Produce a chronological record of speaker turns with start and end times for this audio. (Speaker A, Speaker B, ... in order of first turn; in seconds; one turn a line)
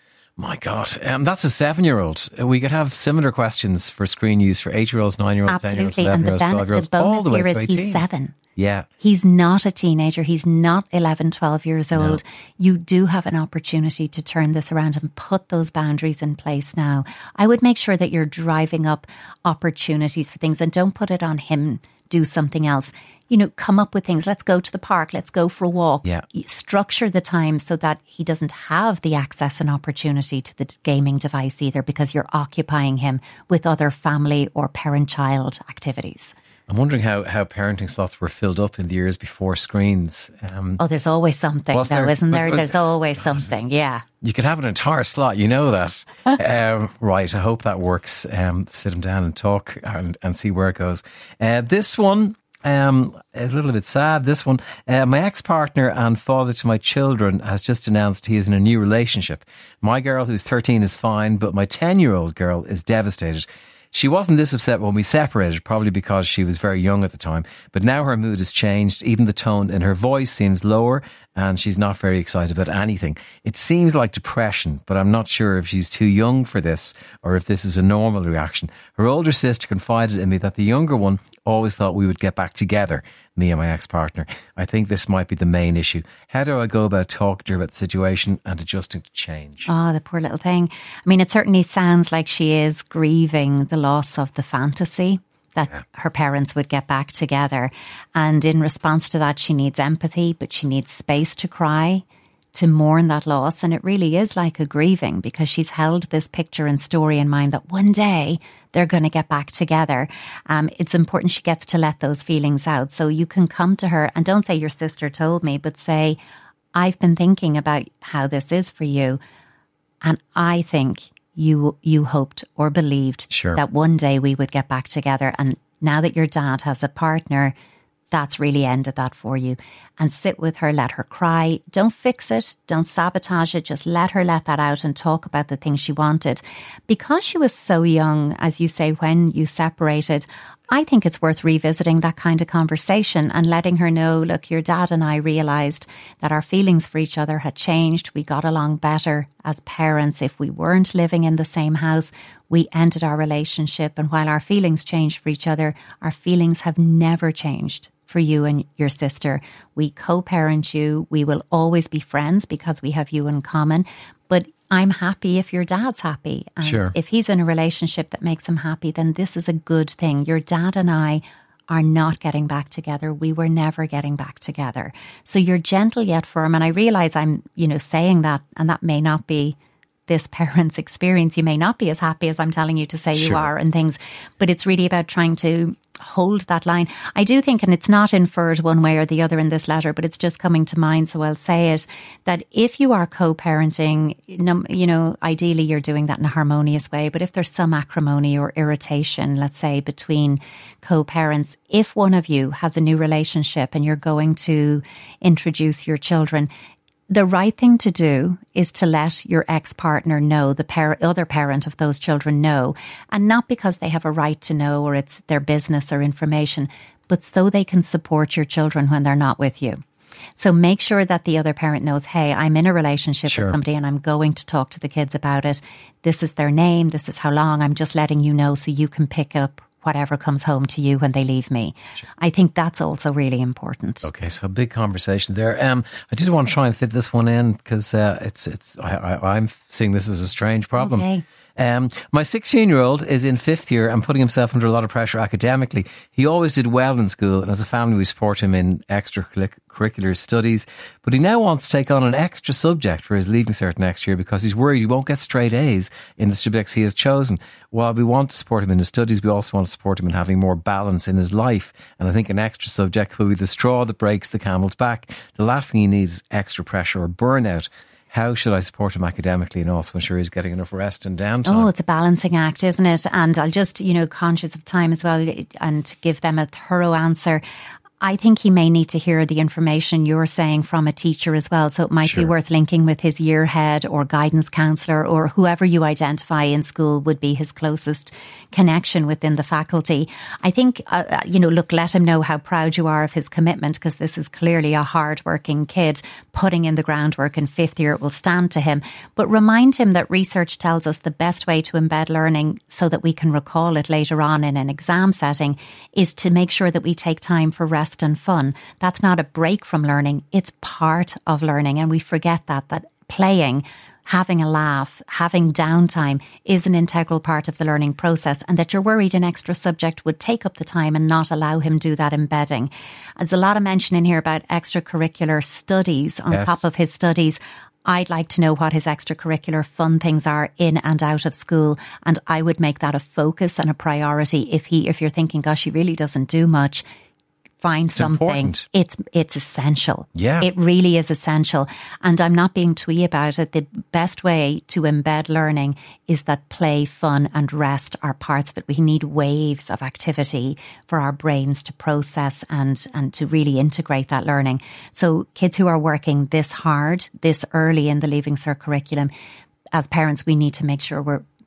Speaker A: 0.4-8.0
Speaker B: 5.5-8.4
Speaker A: 8.6-8.9
Speaker B: 9.0-36.3
Speaker A: 11.9-12.2
Speaker A: 36.7-40.8
Speaker B: 40.8-44.0
Speaker A: 41.7-43.5
Speaker A: 44.2-89.7
Speaker B: 89.7-116.2
Speaker B: 116.7-119.2
Speaker B: 120.0-127.5
Speaker A: 123.3-123.6
Speaker B: 128.1-179.6
Speaker A: 166.6-166.9
Speaker B: 180.1-206.5
Speaker A: 183.1-183.4
Speaker B: 207.1-219.8
Speaker B: 220.4-234.1
Speaker A: 223.3-223.6
Speaker A: 234.0-271.7
Speaker B: 240.8-241.2
Speaker B: 271.4-277.4
Speaker B: 278.0-336.8
Speaker A: 282.0-282.3
Speaker A: 326.3-326.6
Speaker B: 337.6-359.1
Speaker A: 337.9-338.6
Speaker A: 340.1-340.4
Speaker B: 359.7-361.2